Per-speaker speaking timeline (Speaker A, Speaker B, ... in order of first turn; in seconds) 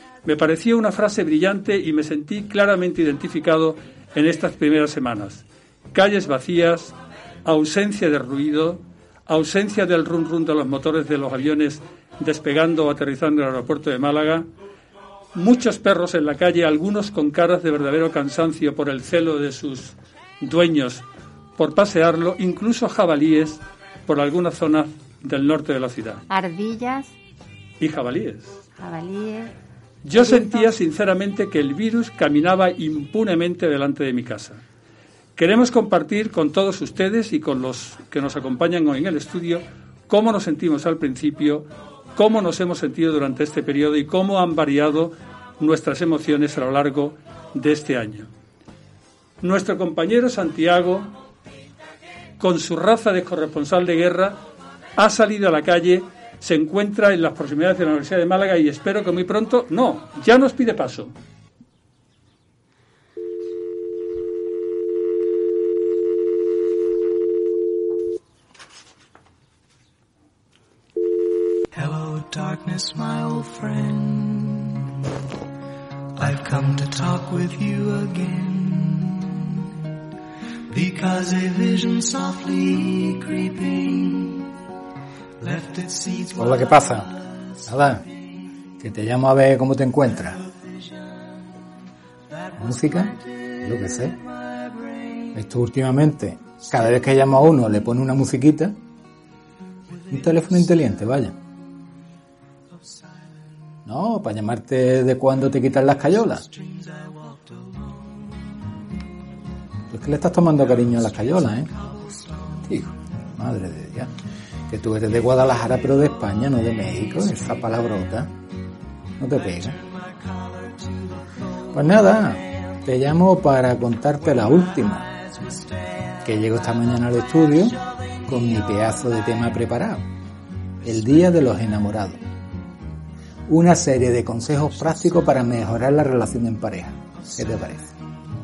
Speaker A: 0.2-14.5, 15.3-21.0, 21.6-26.2, 27.8-28.6, 30.1-34.6, 35.4-48.3, 49.4-51.1, 52.4-54.4, 55.0-61.1
Speaker B: 26.3-27.1, 28.8-29.5, 30.1-30.7
Speaker C: 71.7-74.8, 76.2-79.6, 80.7-84.5, 85.4-86.7, 106.6-107.2
Speaker D: 86.4-87.2, 87.7-88.0, 88.8-90.4, 92.6-94.2, 95.3-98.8, 100.1-101.4, 103.9-106.5, 109.9-111.7, 112.7-114.1, 114.7-118.3, 119.2-119.8, 121.7-125.1, 126.2-130.1, 130.8-132.2, 133.5-137.9